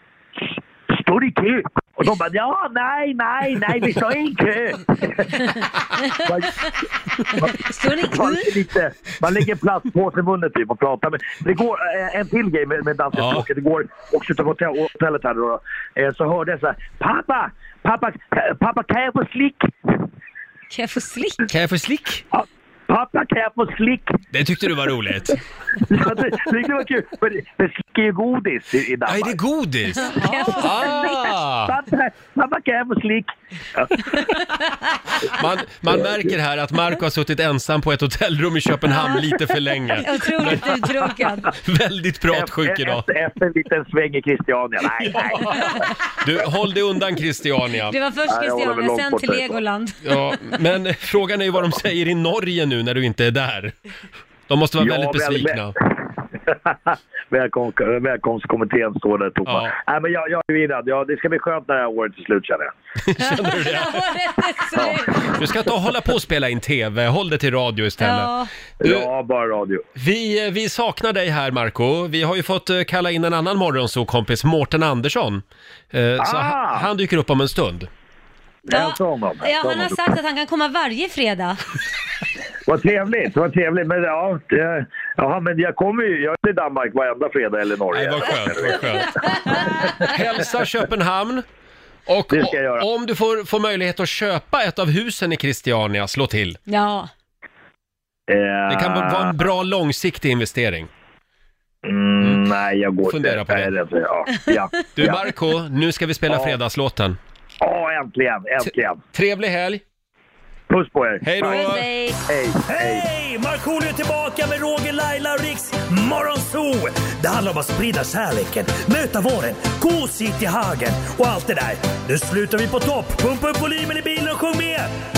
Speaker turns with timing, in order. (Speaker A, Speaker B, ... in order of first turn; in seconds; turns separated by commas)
Speaker A: 0.4-6.8, Speaker A: 7.4-19.7, Speaker B: 7.4-8.5, Speaker C: 13.1-13.5, Speaker B: 20.7-21.4, Speaker C: 21.5-22.2, Speaker A: 22.3-24.1, Speaker C: 24.3-25.4, Speaker A: 25.8-29.4, Speaker C: 29.1-31.7, Speaker B: 30.0-31.3, Speaker A: 30.6-30.9, Speaker A: 31.7-34.5, Speaker C: 35.3-40.7, Speaker B: 38.9-39.2, Speaker B: 40.0-41.5, Speaker C: 41.5-43.1, Speaker A: 42.3-45.9, Speaker C: 45.0-48.0, Speaker B: 47.9-50.2, Speaker A: 48.3-49.6, Speaker C: 50.0-53.7, Speaker C: 54.5-55.8, Speaker A: 54.8-62.7, Speaker C: 59.5-59.8, Speaker C: 63.0-64.0, Speaker B: 63.2-65.4, Speaker C: 65.3-68.3, Speaker B: 68.0-68.5, Speaker A: 68.8-69.8, Speaker C: 68.8-69.1, Speaker C: 70.0-77.9, Speaker A: 76.2-76.9, Speaker B: 78.7-81.6, Speaker A: 78.7-80.0, Speaker A: 82.7-90.2, Speaker C: 87.9-91.5, Speaker C: 92.1-96.6, Speaker A: 92.3-92.9, Speaker B: 96.7-97.1, Speaker A: 98.3-99.4, Speaker C: 98.7-100.9, Speaker A: 101.8-105.3, Speaker C: 103.1-103.7, Speaker C: 105.0-107.2, Speaker A: 106.3-106.6, Speaker A: 107.6-109.0, Speaker C: 109.1-109.8, Speaker A: 110.7-111.7, Speaker C: 111.2-111.9, Speaker B: 111.4-112.2, Speaker A: 112.3-113.1, Speaker D: 112.7-124.9